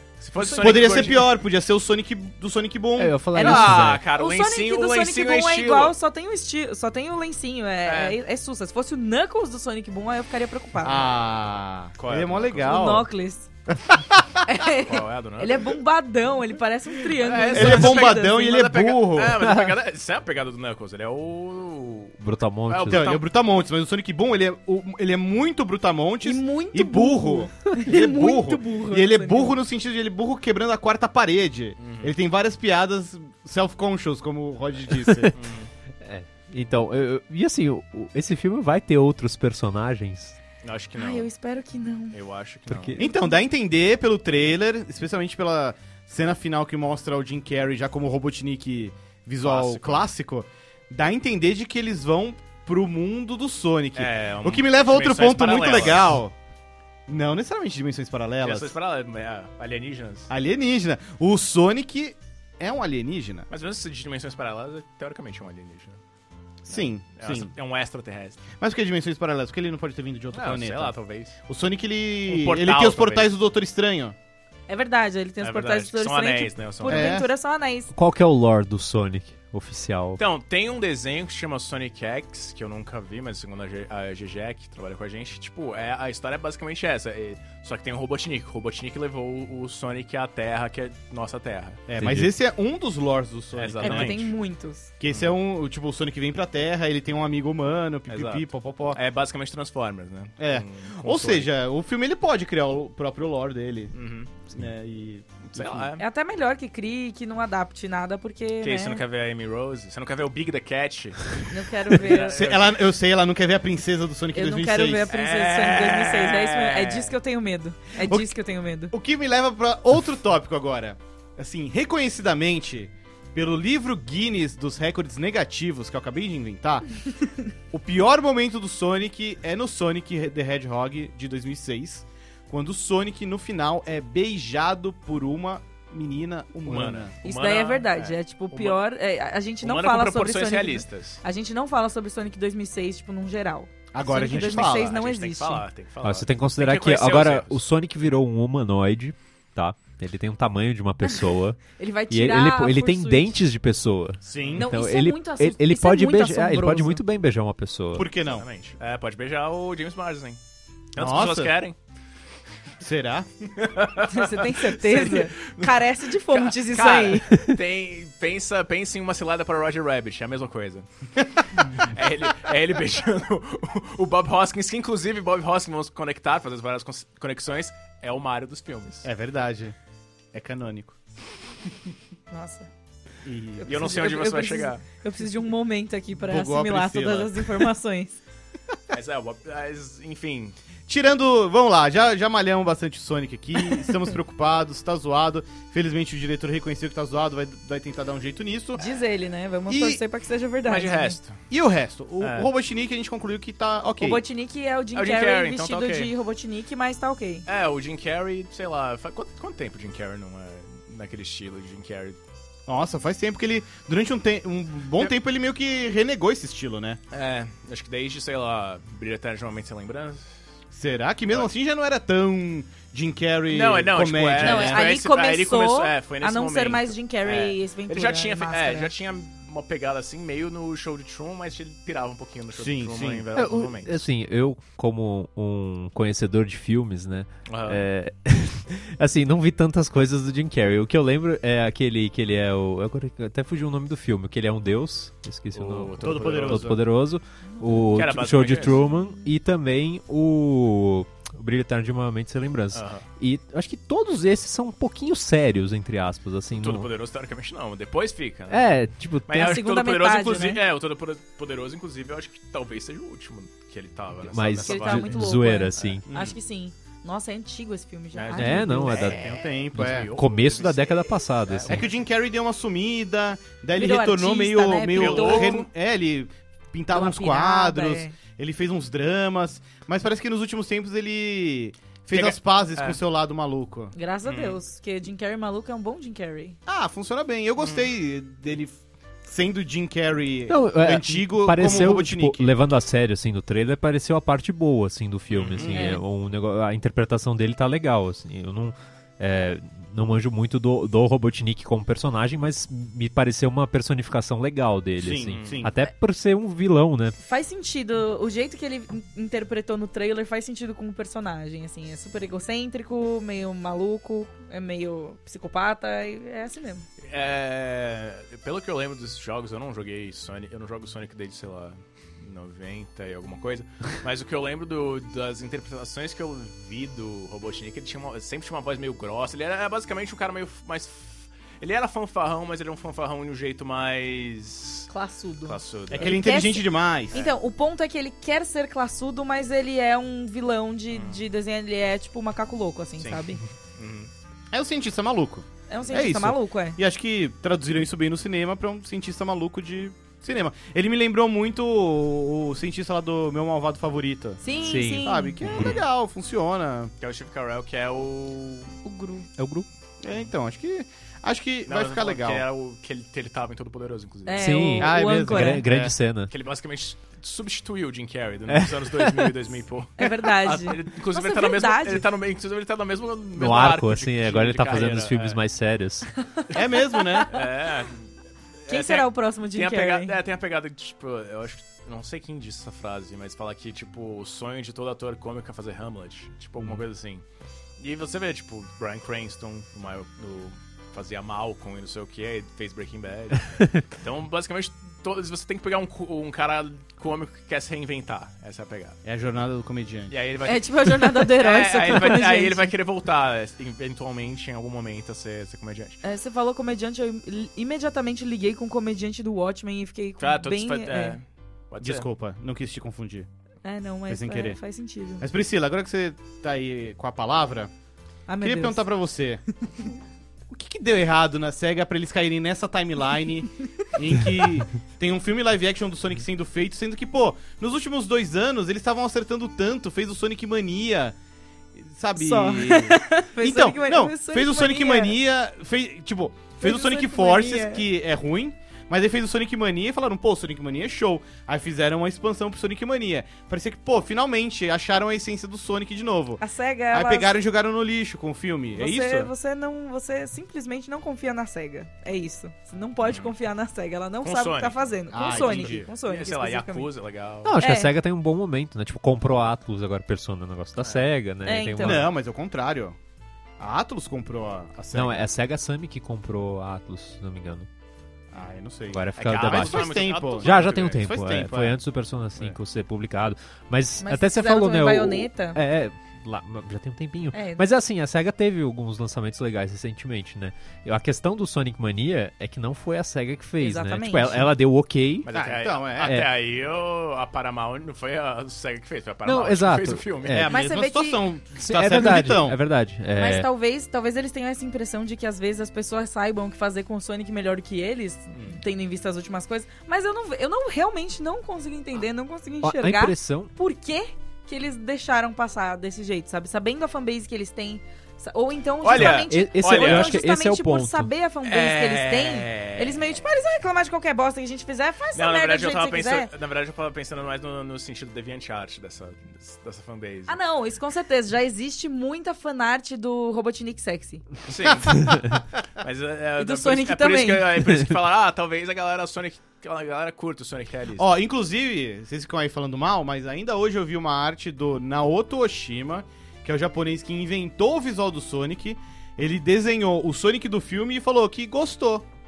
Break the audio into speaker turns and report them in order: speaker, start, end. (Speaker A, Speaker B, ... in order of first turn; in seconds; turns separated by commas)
Speaker A: 0.2-1.3, Speaker B: 0.4-1.1, Speaker C: 0.5-3.2, Speaker D: 3.0-4.0, Speaker A: 3.3-5.9, Speaker B: 3.3-11.1, Speaker A: 7.8-8.2, Speaker C: 10.8-13.1, Speaker A: 12.0-13.0, Speaker B: 12.6-13.5, Speaker C: 13.8-14.4, Speaker B: 14.4-18.4, Speaker A: 14.8-15.6, Speaker A: 17.1-22.1, Speaker C: 17.5-19.4, Speaker D: 19.5-19.7, Speaker D: 22.2-23.1, Speaker A: 22.7-23.2, Speaker C: 22.9-35.3, Speaker B: 26.2-29.6, Speaker A: 31.8-32.1, Speaker D: 35.0-35.3, Speaker A: 35.3-35.7, Speaker D: 36.0-40.4, Speaker A: 40.6-41.3, Speaker B: 41.0-42.2, Speaker A: 42.1-43.0, Speaker D: 42.7-43.0, Speaker C: 43.0-56.3, Speaker A: 49.4-50.1, Speaker A: 53.9-56.2, Speaker C: 57.1-58.7, Speaker A: 58.4-60.3, Speaker C: 60.3-63.5, Speaker A: 63.5-66.0, Speaker C: 66.6-67.5, Speaker A: 66.7-68.4, Speaker C: 68.6-70.9, Speaker A: 70.3-71.3, Speaker C: 71.5-74.1, Speaker A: 72.2-73.3, Speaker B: 74.7-77.9, Speaker A: 75.4-77.2, Speaker C: 76.8-77.3, Speaker D: 77.9-80.2, Speaker A: 80.2-91.8, Speaker C: 91.9-94.3, Speaker D: 92.0-92.3, Speaker A: 93.5-94.3, Speaker B: 93.8-94.9, Speaker C: 95.0-99.0, Speaker A: 95.1-95.3, Speaker A: 98.1-101.5, Speaker C: 100.4-103.9, Speaker A: 103.9-104.3, Speaker C: 104.5-105.9, Speaker A: 105.5-106.0, Speaker B: 106.0-109.0, Speaker A: 108.6-112.8, Speaker B: 111.5-112.4, Speaker C: 112.1-115.1, Speaker B: 114.3-118.9, Speaker A: 115.1-117.1, Speaker C: 118.0-118.3, Speaker C: 118.9-127.0, Speaker C: 127.7-137.1, Speaker A: 136.6-138.8, Speaker B: 137.2-145.6, Speaker A: 139.6-141.2, Speaker C: 143.9-144.9, Speaker A: 144.1-147.6, Speaker D: 146.0-158.1, Speaker B: 151.8-153.4, Speaker C: 154.2-154.7, Speaker A: 154.3-154.6, Speaker B: 154.6-157.0, Speaker C: 157.9-158.4, Speaker A: 158.2-160.4, Speaker A: 160.9-161.8, Speaker C: 161.0-161.5, Speaker C: 162.8-163.3, Speaker A: 163.6-170.8, Speaker B: 164.1-167.3, Speaker A: 171.5-179.1, Speaker C: 179.0-179.7, Speaker C: 180.3-180.9, Speaker B: 182.3-182.7, Speaker C: 183.2-183.7, Speaker B: 183.6-188.2, Speaker A: 183.6-184.8, Speaker C: 186.2-187.7, Speaker A: 188.9-190.6, Speaker C: 190.9-198.8, Speaker B: 198.8-201.2, Speaker C: 199.7-200.0, Speaker A: 200.7-201.4, Speaker C: 201.5-204.2, Speaker A: 202.2-202.5, Speaker B: 204.0-207.4, Speaker A: 204.9-206.1, Speaker A: 207.5-212.2, Speaker C: 212.7-217.0, Speaker A: 217.1-220.3, Speaker C: 220.7-224.9, Speaker A: 223.5-234.0, Speaker B: 224.4-228.9, Speaker C: 232.5-233.2, Speaker D: 233.3-256.9, Speaker A: 237.5-237.8, Speaker A: 245.5-246.8, Speaker C: 246.0-246.8, Speaker A: 247.9-248.8, Speaker A: 252.7-253.1, Speaker A: 256.5-258.7, Speaker D: 258.5-259.6, Speaker A: 259.3-265.2, Speaker B: 259.3-260.6, Speaker D: 264.2-266.1, Speaker B: 264.6-269.1, Speaker A: 265.7-266.2, Speaker C: 266.1-266.3, Speaker A: 268.1-272.0, Speaker D: 268.3-271.8, Speaker C: 269.1-270.1, Speaker C: 271.7-283.9, Speaker B: 273.7-275.6, Speaker A: 274.9-275.7, Speaker B: 276.9-278.1, Speaker A: 282.1-283.0, Speaker B: 283.9-286.6, Speaker A: 284.2-284.6, Speaker C: 286.7-292.5, Speaker A: 287.6-287.9, Speaker D: 290.5-307.1, Speaker A: 295.3-295.8, Speaker B: 295.7-296.0, Speaker C: 305.0-305.7, Speaker A: 305.2-305.7, Speaker B: 307.2-316.9, Speaker A: 317.0-334.9, Speaker B: 334.9-343.4, Speaker A: 335.4-336.2, Speaker C: 335.9-337.2, Speaker A: 340.9-341.2, Speaker A: 343.0-344.1, Speaker C: 344.5-354.4, Speaker B: 345.7-346.8, Speaker B: 354.4-355.4, Speaker D: 354.6-355.8, Speaker C: 355.0-356.9, Speaker A: 355.5-355.8, Speaker A: 357.0-358.8, Speaker B: 358.8-359.3, Speaker D: 359.4-359.6, Speaker C: 360.0-362.4, Speaker A: 361.7-364.6, Speaker B: 364.2-365.6, Speaker D: 364.4-366.3, Speaker C: 364.8-365.9, Speaker A: 366.3-375.4, Speaker D: 368.5-369.3, Speaker B: 370.0-372.0, Speaker D: 373.3-376.1, Speaker B: 376.2-377.3, Speaker C: 376.5-377.4, Speaker A: 377.3-378.1, Speaker A: 378.6-387.2, Speaker B: 378.7-380.1, Speaker A: 387.8-399.0, Speaker C: 399.0-400.1, Speaker A: 400.1-406.0, Speaker B: 400.4-402.7, Speaker B: 406.0-411.2, Speaker A: 410.2-412.1, Speaker C: 411.8-413.3, Speaker B: 413.6-415.2, Speaker C: 414.1-414.6, Speaker C: 415.2-417.7, Speaker B: 418.3-418.8, Speaker C: 418.4-419.4, Speaker C: 420.5-431.1, Speaker C: 431.8-449.3, Speaker B: 432.1-435.2, Speaker B: 436.6-437.8, Speaker B: 446.4-447.4, Speaker B: 448.7-456.9, Speaker A: 453.0-453.3, Speaker A: 454.2-457.6, Speaker C: 455.1-455.9, Speaker D: 457.4-462.1, Speaker B: 457.6-457.9, Speaker A: 460.8-461.1, Speaker B: 461.4-462.0, Speaker C: 461.8-462.9, Speaker C: 463.6-465.2, Speaker D: 464.9-467.7, Speaker C: 468.3-471.8, Speaker D: 468.9-485.3, Speaker A: 469.2-471.1, Speaker B: 474.0-475.6, Speaker B: 477.3-477.6, Speaker B: 483.6-484.5, Speaker A: 485.2-490.5, Speaker C: 485.3-486.2, Speaker D: 486.0-486.3, Speaker D: 489.2-490.5, Speaker C: 490.3-492.6, Speaker B: 490.5-491.2, Speaker D: 491.6-493.5, Speaker B: 493.1-516.3, Speaker A: 498.3-498.6, Speaker D: 502.6-503.5, Speaker A: 508.8-510.2, Speaker D: 508.9-511.1, Speaker A: 511.4-513.2, Speaker A: 515.1-520.4, Speaker B: 520.3-524.2, Speaker A: 524.5-531.1, Speaker B: 526.4-527.5, Speaker C: 531.0-542.0